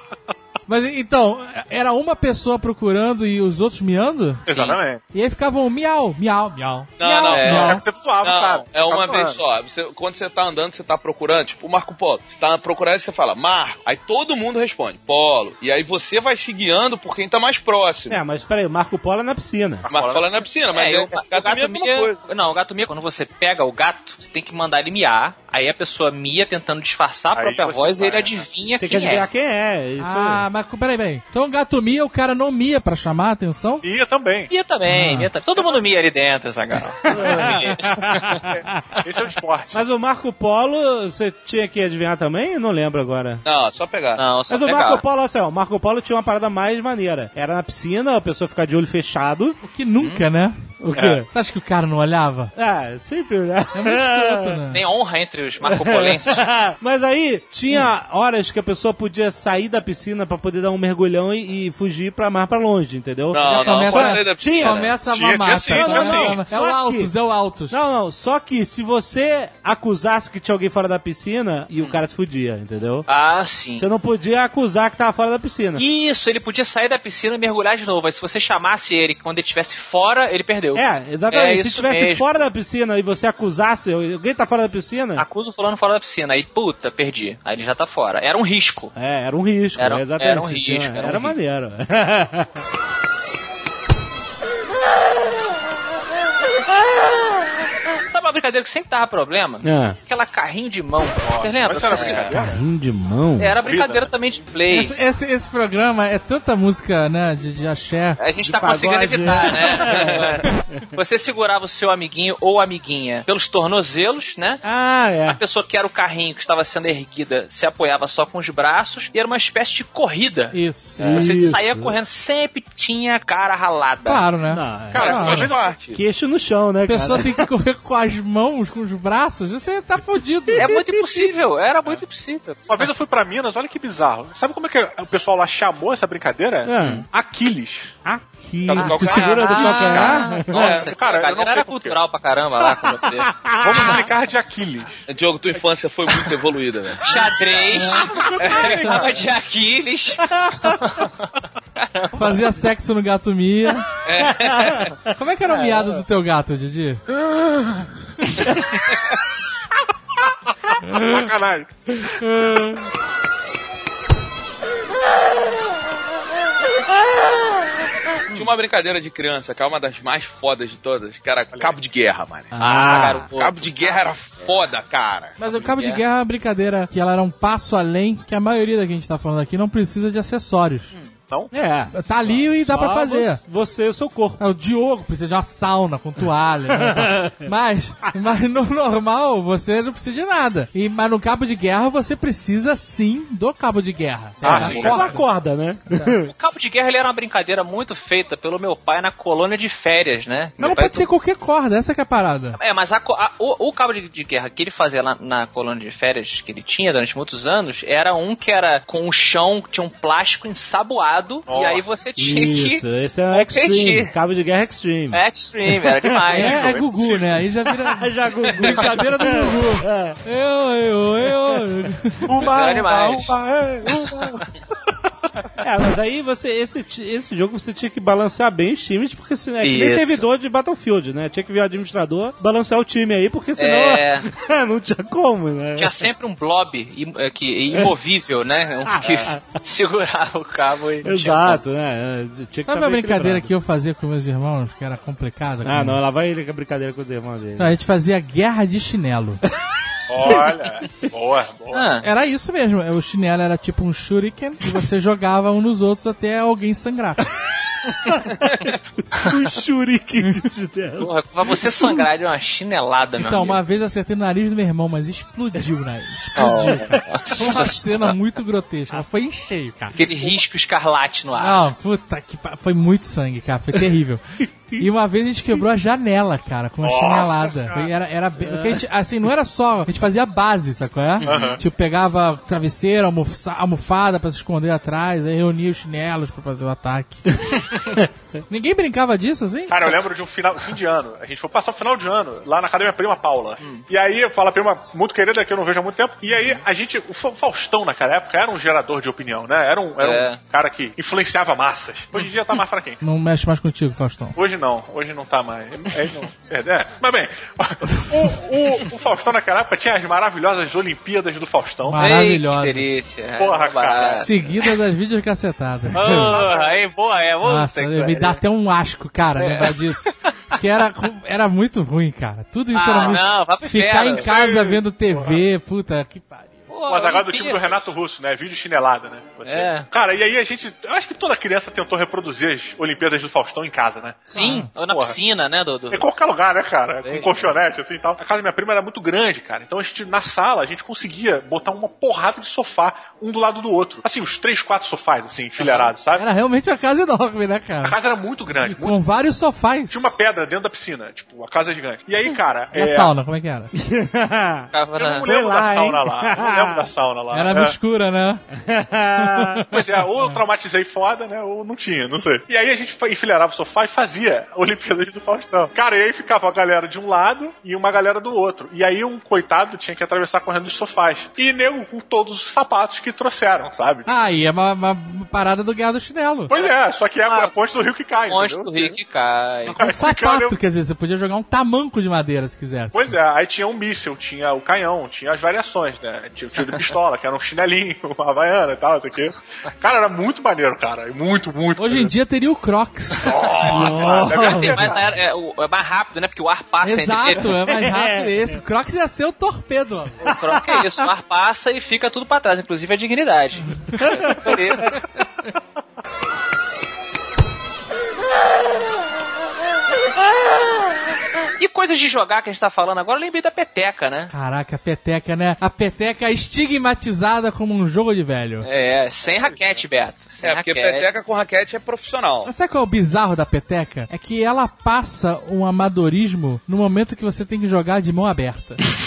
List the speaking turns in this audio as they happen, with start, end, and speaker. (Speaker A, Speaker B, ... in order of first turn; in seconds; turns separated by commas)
Speaker A: 0.7-4.5, Speaker B: 4.5-5.0, Speaker C: 4.5-4.8, Speaker A: 5.1-7.8, Speaker D: 7.0-18.2, Speaker C: 7.3-7.8, Speaker B: 7.5-9.4, Speaker E: 18.1-19.8, Speaker B: 19.8-20.4, Speaker D: 19.9-22.2, Speaker C: 20.7-29.2, Speaker B: 27.3-28.4, Speaker E: 28.8-30.4, Speaker A: 30.0-33.8, Speaker B: 33.8-34.5, Speaker C: 34.5-38.5, Speaker A: 34.9-35.3, Speaker E: 37.1-38.8, Speaker B: 39.0-39.8, Speaker E: 39.7-43.4, Speaker D: 43.4-44.2, Speaker C: 44.2-45.0, Speaker E: 44.5-49.6, Speaker A: 49.6-50.7, Speaker E: 50.8-51.2, Speaker B: 50.9-51.2, Speaker A: 51.3-52.5, Speaker E: 52.5-54.6, Speaker A: 53.7-54.8, Speaker C: 54.7-56.5, Speaker E: 55.6-64.9, Speaker D: 63.3-65.0, Speaker A: 63.4-67.8, Speaker C: 63.5-64.0, Speaker B: 65.0-66.4, Speaker E: 65.7-67.1, Speaker E: 67.7-73.1, Speaker C: 73.1-73.8, Speaker E: 73.8-75.8, Speaker C: 75.8-82.3, Speaker E: 80.7-85.2, Speaker C: 85.2-88.9, Speaker E: 88.9-92.5, Speaker C: 89.8-91.3, Speaker C: 98.1-102.3, Speaker E: 99.6-100.0, Speaker B: 101.2-102.6, Speaker E: 102.3-103.5, Speaker C: 103.4-104.9, Speaker B: 103.6-104.1, Speaker A: 104.7-108.2, Speaker C: 108.2-114.6, Speaker E: 108.4-110.3, Speaker D: 109.8-110.4, Speaker E: 114.6-115.4, Speaker C: 115.2-124.3, Speaker A: 120.5-121.0, Speaker E: 121.0-122.0, Speaker A: 124.0-125.5, Speaker E: 124.5-125.3, Speaker B: 124.9-125.7, Speaker D: 125.0-126.0, Speaker E: 125.9-127.4, Speaker A: 126.9-130.7, Speaker E: 130.5-131.2, Speaker C: 130.6-132.9, Speaker B: 132.7-137.9, Speaker E: 136.6-137.0, Speaker E: 138.0-140.7, Speaker D: 138.7-139.5, Speaker C: 138.7-143.9, Speaker B: 139.7-142.0, Speaker D: 140.5-140.9, Speaker E: 142.8-144.0, Speaker B: 143.6-145.0, Speaker D: 145.1-147.7, Speaker C: 147.0-152.4, Speaker E: 147.9-149.1, Speaker D: 148.4-148.9, Speaker E: 150.3-150.8, Speaker A: 152.1-153.8, Speaker D: 154.0-154.9, Speaker E: 154.4-154.8, Speaker A: 155.1-157.0, Speaker B: 160.7-162.3, Speaker C: 168.3-168.5, Speaker D: 168.3-172.6, Speaker E: 172.5-173.3, Speaker C: 172.6-174.5, Speaker D: 173.3-175.3, Speaker A: 175.4-180.9, Speaker C: 175.5-176.0, Speaker E: 181.5-184.4, Speaker A: 181.9-183.4, Speaker A: 184.4-195.2, Speaker E: 186.7-187.5, Speaker B: 194.4-195.0, Speaker E: 194.4-196.3, Speaker C: 196.2-201.1, Speaker A: 200.6-202.6, Speaker C: 202.6-214.1, Speaker B: 211.5-211.8, Speaker E: 212.2-216.4, Speaker C: 215.1-216.8, Speaker A: 216.3-222.3, Speaker B: 216.4-217.3, Speaker E: 217.8-220.2, Speaker E: 221.2-221.7, Speaker B: 222.3-224.4, Speaker C: 222.4-223.3, Speaker C: 224.0-224.3, Speaker E: 225.6-236.1, Speaker C: 229.6-230.2, Speaker C: 233.6-234.3, Speaker C: 235.8-241.6, Speaker E: 238.8-239.4, Speaker E: 241.0-243.5, Speaker A: 242.7-246.0, Speaker E: 245.6-247.7, Speaker A: 247.6-249.4, Speaker B: 250.1-251.9, Speaker C: 251.7-252.1, Speaker A: 252.0-257.3, Speaker E: 258.1-262.1, Speaker C: 261.0-263.6, Speaker A: 263.2-270.0, Speaker C: 266.4-268.1, Speaker E: 266.5-267.0, Speaker C: 269.9-271.6, Speaker A: 271.4-274.2, Speaker A: 274.8-287.7, Speaker B: 276.8-277.9, Speaker E: 278.4-278.8, Speaker C: 281.2-281.6, Speaker B: 281.2-281.6, Speaker A: 288.5-290.0, Speaker B: 289.7-303.0, Speaker C: 300.0-300.4, Speaker A: 303.0-304.4, Speaker B: 304.4-312.0, Speaker A: 307.9-308.3, Speaker A: 311.8-312.9, Speaker C: 312.0-314.7, Speaker B: 313.4-314.3, Speaker A: 314.2-316.4, Speaker C: 315.9-318.4, Speaker B: 316.1-316.8, Speaker A: 317.4-326.7, Speaker C: 319.4-320.6, Speaker C: 322.7-324.3, Speaker B: 324.2-325.4, Speaker C: 326.7-327.9, Speaker B: 326.9-335.2, Speaker C: 329.4-329.9, Speaker C: 334.3-336.1, Speaker A: 334.3-334.7, Speaker B: 335.9-346.2, Speaker C: 337.0-337.5, Speaker C: 345.6-345.9, Speaker A: 346.2-348.0, Speaker B: 347.8-349.0, Speaker A: 348.5-350.2, Speaker B: 349.9-353.1, Speaker A: 352.7-353.7, Speaker E: 353.7-354.7, Speaker C: 354.7-355.3, Speaker B: 354.9-357.8, Speaker E: 355.2-356.9, Speaker A: 357.3-358.4, Speaker E: 358.6-359.6, Speaker A: 359.2-360.4, Speaker B: 359.7-374.1, Speaker A: 374.1-376.5, Speaker B: 376.5-379.0, Speaker C: 377.3-377.5, Speaker C: 378.3-379.8, Speaker A: 379.7-383.1, Speaker B: 379.7-380.6, Speaker B: 382.9-392.1, Speaker A: 391.8-393.3, Speaker B: 393.2-395.1, Speaker C: 393.2-397.6, Speaker E: 393.6-395.0, Speaker A: 396.8-400.2, Speaker E: 397.7-398.6, Speaker C: 400.2-405.0, Speaker E: 400.3-401.0, Speaker A: 403.8-404.2, Speaker E: 404.0-404.6, Speaker C: 411.6-414.3, Speaker A: 414.3-418.7, Speaker C: 418.6-421.1, Speaker B: 419.3-419.6, Speaker D: 420.4-422.5, Speaker A: 422.4-428.9